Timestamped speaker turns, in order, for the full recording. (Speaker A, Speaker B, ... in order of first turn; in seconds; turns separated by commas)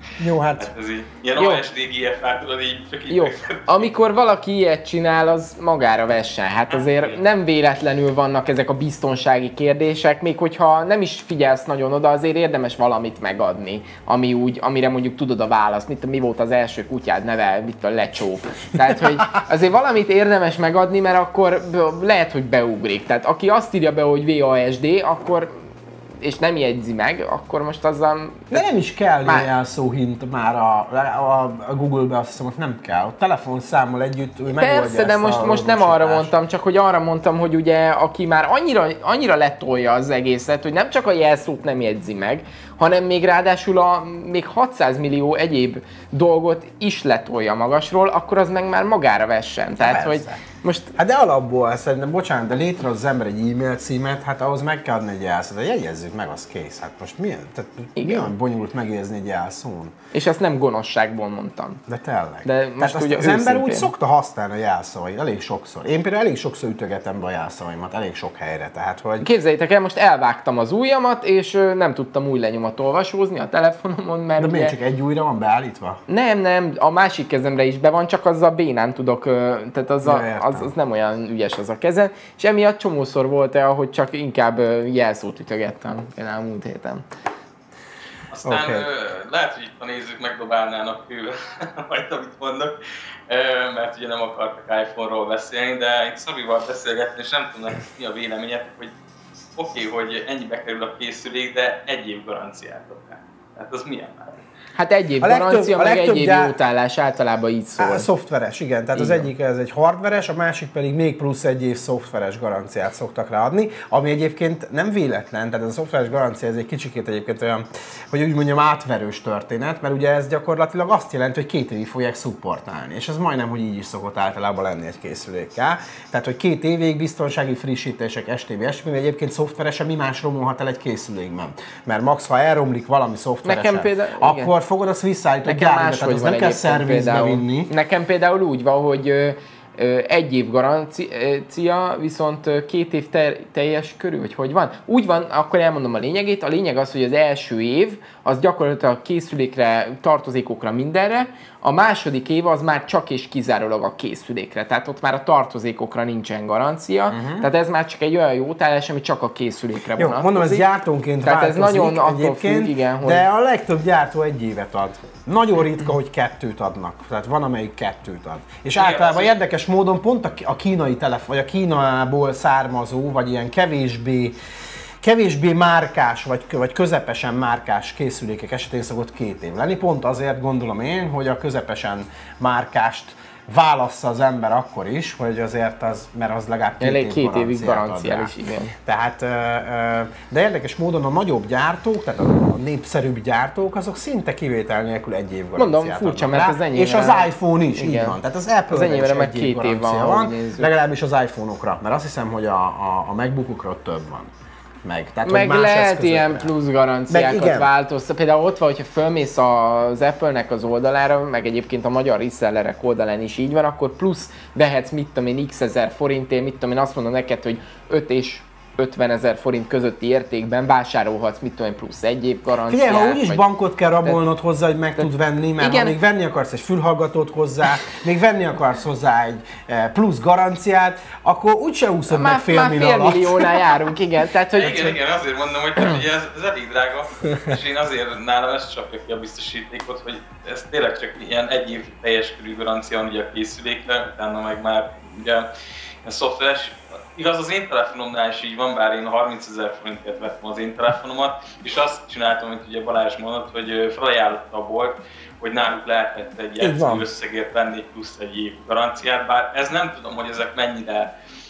Speaker A: 0.2-0.7, Speaker B: 0.6-3.9, Speaker C: 1.4-1.6, Speaker C: 3.1-25.5, Speaker B: 6.8-7.2, Speaker C: 26.2-28.6, Speaker A: 28.5-36.3, Speaker C: 34.5-50.9, Speaker A: 49.8-50.4, Speaker A: 51.0-59.9, Speaker C: 58.0-58.3, Speaker C: 60.1-61.8, Speaker A: 61.9-69.3, Speaker C: 62.4-63.9, Speaker C: 69.2-74.7, Speaker A: 74.4-76.0, Speaker C: 76.1-87.0, Speaker A: 80.0-80.7, Speaker B: 88.3-92.7, Speaker A: 88.4-88.8, Speaker B: 93.3-98.9, Speaker B: 99.5-104.3, Speaker C: 104.7-108.1, Speaker A: 105.2-106.5, Speaker A: 107.8-137.7, Speaker C: 108.9-109.2, Speaker C: 133.4-134.5, Speaker C: 135.5-160.7, Speaker A: 157.1-157.4, Speaker A: 160.0-174.3, Speaker C: 161.2-163.2, Speaker B: 168.8-169.3, Speaker A: 175.0-204.3, Speaker C: 186.8-188.7, Speaker C: 195.6-198.2, Speaker C: 198.7-200.7, Speaker A: 204.8-206.5, Speaker C: 205.2-223.4, Speaker A: 207.1-207.7, Speaker A: 222.7-233.6, Speaker C: 225.6-225.9, Speaker C: 232.1-234.9, Speaker B: 234.6-245.5, Speaker B: 246.0-261.1, Speaker A: 256.6-257.1